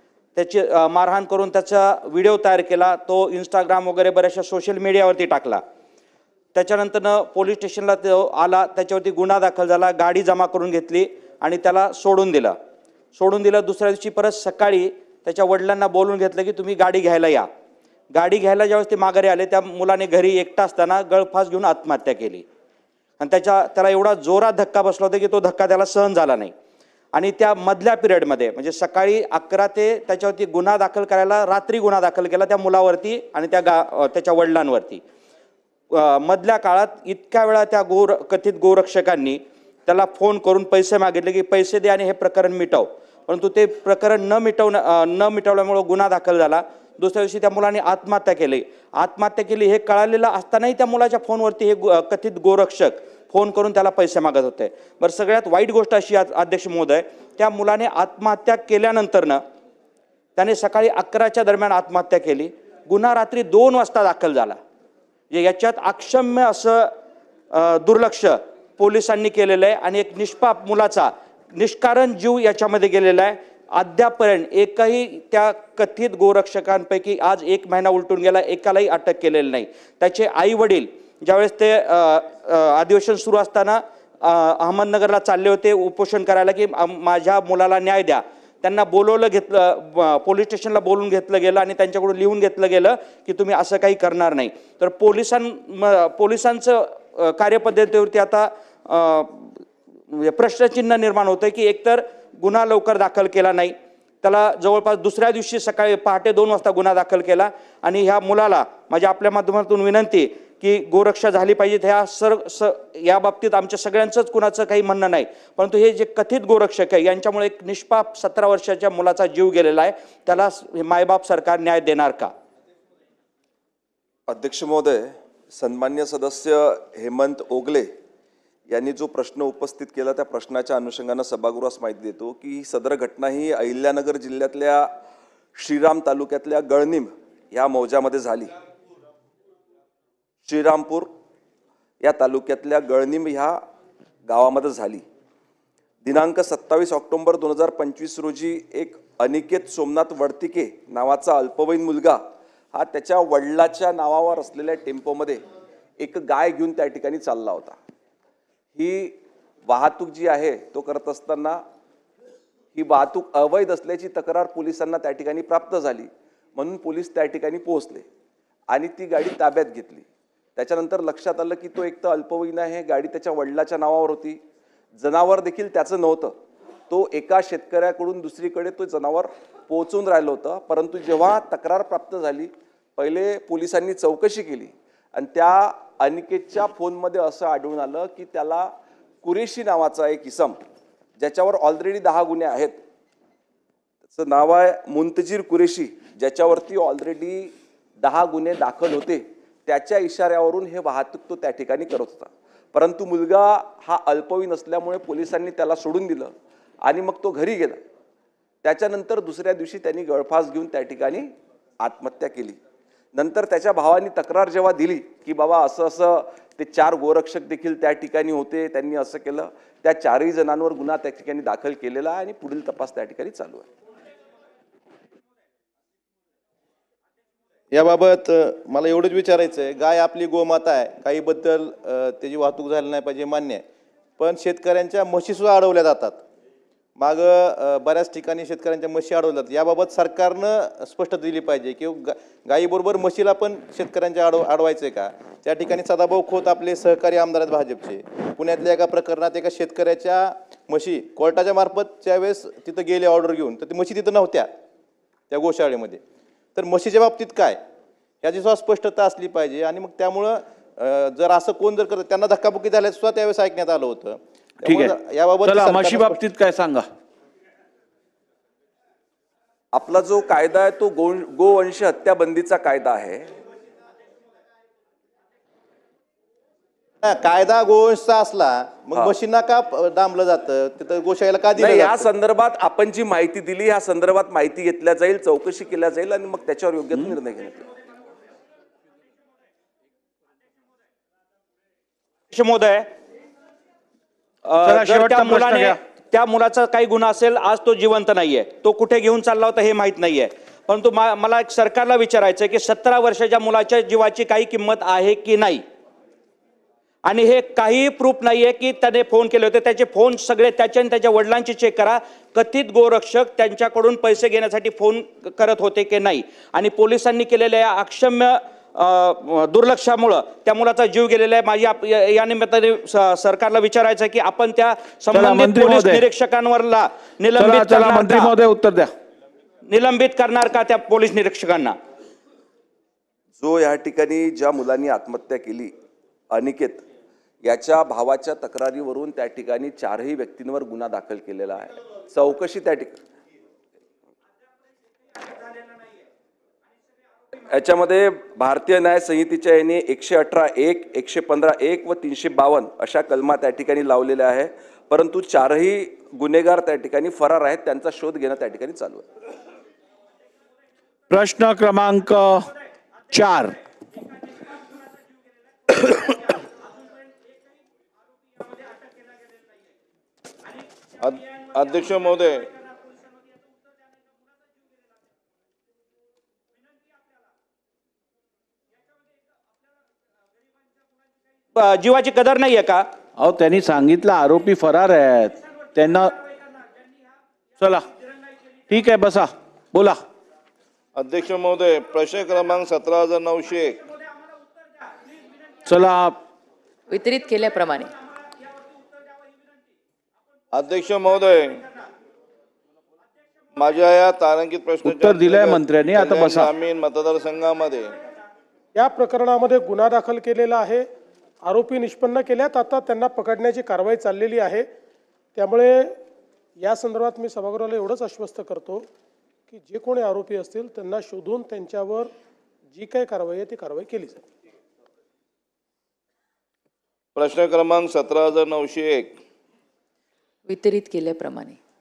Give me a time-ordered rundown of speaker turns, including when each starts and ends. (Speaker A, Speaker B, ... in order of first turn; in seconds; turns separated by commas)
Speaker A: 0.3-5.6, Speaker A: 6.5-12.6, Speaker A: 13.2-17.5, Speaker A: 18.1-22.4, Speaker A: 23.2-26.5, Speaker A: 27.1-35.0, Speaker A: 35.9-59.4, Speaker A: 60.4-64.6, Speaker A: 65.3-66.9, Speaker A: 67.5-122.3, Speaker B: 124.3-127.9, Speaker B: 128.7-134.9, Speaker B: 135.6-138.5, Speaker B: 140.5-141.1, Speaker B: 142.0-143.6, Speaker B: 144.3-145.0, Speaker B: 146.1-152.2, Speaker B: 152.7-155.4, Speaker B: 156.0-157.8, Speaker B: 158.8-159.2, Speaker B: 159.7-161.6, Speaker B: 162.8-168.0, Speaker B: 168.7-174.4, Speaker B: 175.0-176.3, Speaker B: 176.9-188.7, Speaker B: 189.2-190.6, Speaker B: 191.2-192.8, Speaker B: 194.1-206.3, Speaker B: 206.8-207.8, Speaker B: 208.6-212.6, Speaker B: 213.2-223.7, Speaker C: 227.7-233.6, Speaker C: 234.2-236.2, Speaker C: 237.0-254.5, Speaker C: 255.3-256.0, Speaker C: 256.6-257.6, Speaker C: 258.2-266.2, Speaker D: 264.6-266.9, Speaker B: 269.7-273.3, Speaker C: 277.0-282.1, Speaker B: 281.6-287.6, Speaker A: 292.3-292.9, Speaker A: 294.4-305.6, Speaker D: 294.6-295.8, Speaker A: 307.1-328.2, Speaker D: 325.1-326.1, Speaker D: 327.3-328.9, Speaker A: 329.7-331.8, Speaker B: 333.4-335.7, Speaker B: 336.3-336.8, Speaker B: 337.4-343.0, Speaker B: 347.5-359.1, Speaker D: 361.1-362.5, Speaker D: 363.1-363.6, Speaker E: 371.0-372.5, Speaker A: 381.6-382.9, Speaker D: 383.2-386.1, Speaker D: 387.6-387.9, Speaker D: 388.7-390.0, Speaker E: 390.9-393.8, Speaker D: 395.7-396.2, Speaker F: 396.9-397.9, Speaker E: 400.5-401.6, Speaker E: 403.6-407.9, Speaker D: 404.8-406.6, Speaker G: 408.8-410.9, Speaker G: 411.4-414.7, Speaker G: 415.4-415.9, Speaker G: 416.6-418.9, Speaker G: 419.5-422.1, Speaker G: 422.8-424.2, Speaker E: 427.2-429.2, Speaker F: 430.5-431.6